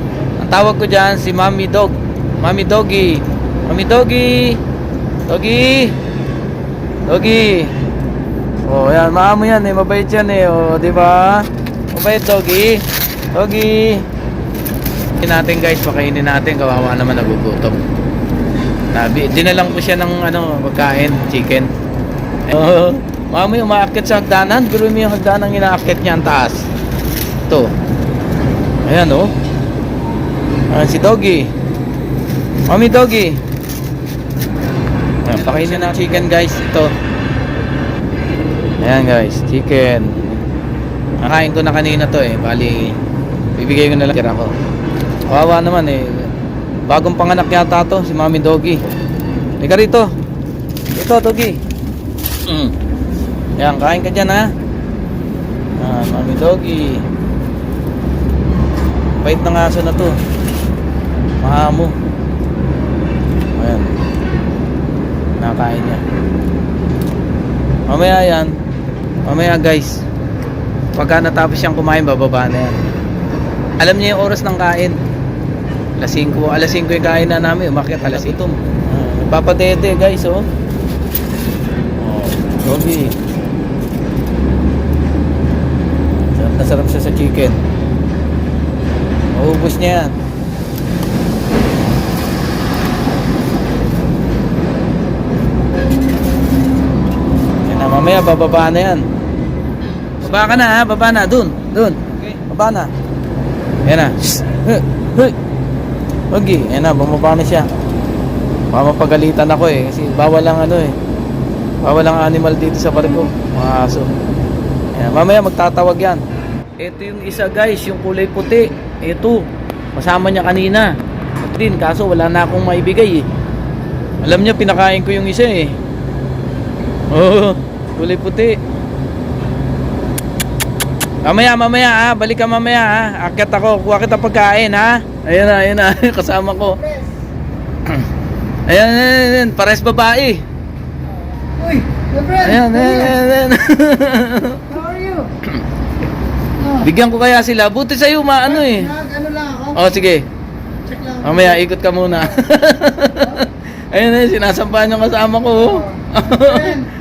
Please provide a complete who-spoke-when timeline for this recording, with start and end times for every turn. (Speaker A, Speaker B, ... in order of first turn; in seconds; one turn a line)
Speaker A: 0.4-4.6
Speaker A: 5.3-6.0
Speaker A: 7.1-7.7
Speaker A: 8.7-14.1
Speaker A: 15.2-17.8
Speaker A: 18.9-21.7
Speaker A: 22.5-26.6
Speaker A: 28.9-29.3
Speaker A: 30.7-31.5
Speaker A: 32.7-33.4
Speaker A: 35.2-36.9
Speaker A: 38.8-40.4
Speaker A: 41.2-43.0
Speaker A: 43.6-44.5
Speaker A: 45.3-46.3
Speaker A: 46.9-48.8
Speaker A: 49.6-50.1
Speaker A: 51.0-51.6
Speaker A: 52.5-52.7
Speaker A: 53.6-54.5
Speaker A: 55.8-57.0
Speaker A: 59.2-60.2
Speaker A: 61.4-62.0
Speaker A: 63.6-63.9
Speaker A: 65.4-66.0
Speaker A: 67.9-68.5
Speaker A: 69.2-70.0
Speaker A: 70.9-72.8
Speaker A: 73.8-75.0
Speaker A: 76.0-80.5
Speaker A: 82.0-83.2
Speaker A: 86.3-87.6
Speaker A: 89.3-90.1
Speaker A: 97.7-99.0
Speaker A: 100.2-102.9
Speaker A: 103.8-105.3
Speaker A: 106.3-107.7
Speaker A: 108.7-110.9
Speaker A: 111.8-114.1
Speaker A: 114.9-116.2
Speaker A: 116.8-123.3
Speaker A: 124.2-125.8
Speaker A: 127.1-128.6
Speaker A: 131.2-136.8
Speaker B: 136.8-137.1
Speaker A: 138.7-140.4
Speaker B: 141.3-143.1
Speaker A: 142.4-144.8
Speaker B: 144.7-145.3
Speaker A: 146.7-148.9
Speaker B: 148.6-149.8
Speaker A: 149.7-150.2
Speaker B: 150.9-151.4
Speaker A: 151.2-156.9
Speaker B: 155.7-156.8